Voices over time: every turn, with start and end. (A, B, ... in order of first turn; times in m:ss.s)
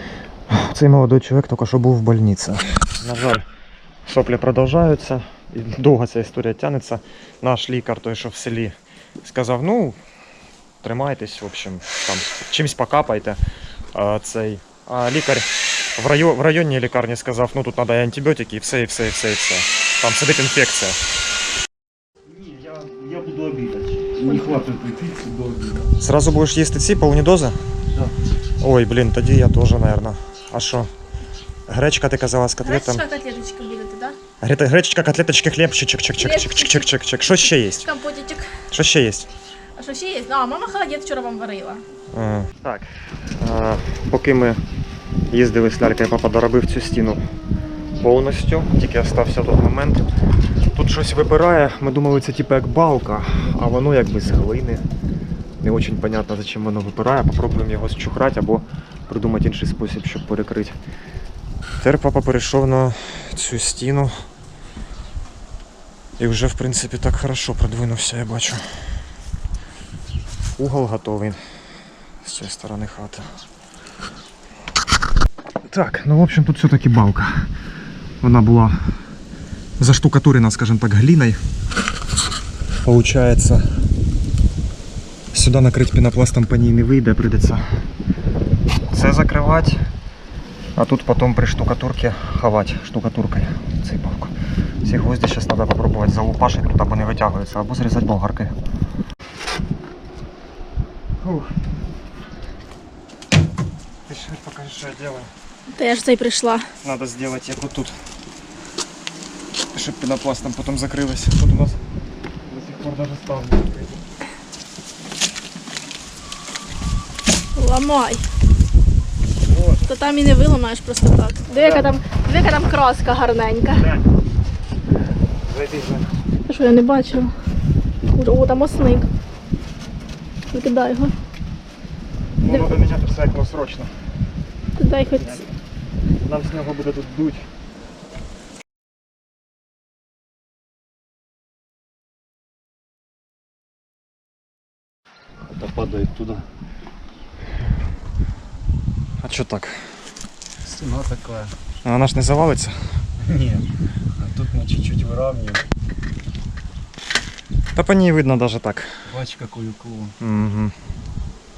0:00.5-0:03.4 A
0:04.0-0:10.0 A
0:10.8-0:13.4 A
0:13.9-0:21.0 A
0:22.3-0:25.9 B
0:24.2-0:24.6 C
0:26.0-0:27.6 A
0:28.6-0:30.9 A
0:31.7-0:33.0 A
0:32.6-0:34.2 C
0:34.4-0:37.9 A
0:36.2-0:36.8 C
0:37.4-0:38.5 C
0:38.7-0:39.3 A
0:39.8-0:41.8 C
0:42.1-0:44.6 A
0:45.3-0:47.2 A
0:48.0-0:50.0 A
0:50.7-0:54.8 A
0:55.6-1:00.8 A
1:01.8-1:04.1 A
1:06.2-1:08.6 A
1:10.6-1:11.4 A
1:12.2-1:13.3 A
1:15.7-1:17.5 A
1:18.2-1:18.8 A
1:19.8-1:21.4 A
1:22.8-1:23.6 A
1:25.3-1:27.6 A
1:28.9-1:29.8 A
1:30.8-1:38.5 A
1:41.2-1:41.5 A
1:44.1-1:45.3 A
1:45.7-1:46.6 C
1:46.8-1:48.0 A
1:49.7-1:51.8 A
1:52.5-1:54.0 A
1:57.6-1:58.2 C
1:59.5-1:59.9 A
1:59.8-2:03.8 C
2:01.5-2:02.0 A
2:03.7-2:04.0 A
2:05.4-2:06.1 A
2:06.5-2:07.3 C
2:08.1-2:09.1 C
2:10.5-2:11.1 C
2:12.4-2:13.9 A
2:12.4-2:12.7 C
2:14.8-2:15.4 C
2:15.2-2:15.4 A
2:16.2-2:17.5 A
2:25.5-2:26.4 B
2:29.2-2:29.8 A
2:30.6-2:31.5 B
2:31.8-2:32.8 A
2:33.2-2:35.6 B
2:37.7-2:38.9 A
2:39.1-2:40.1 B
2:40.2-2:40.7 A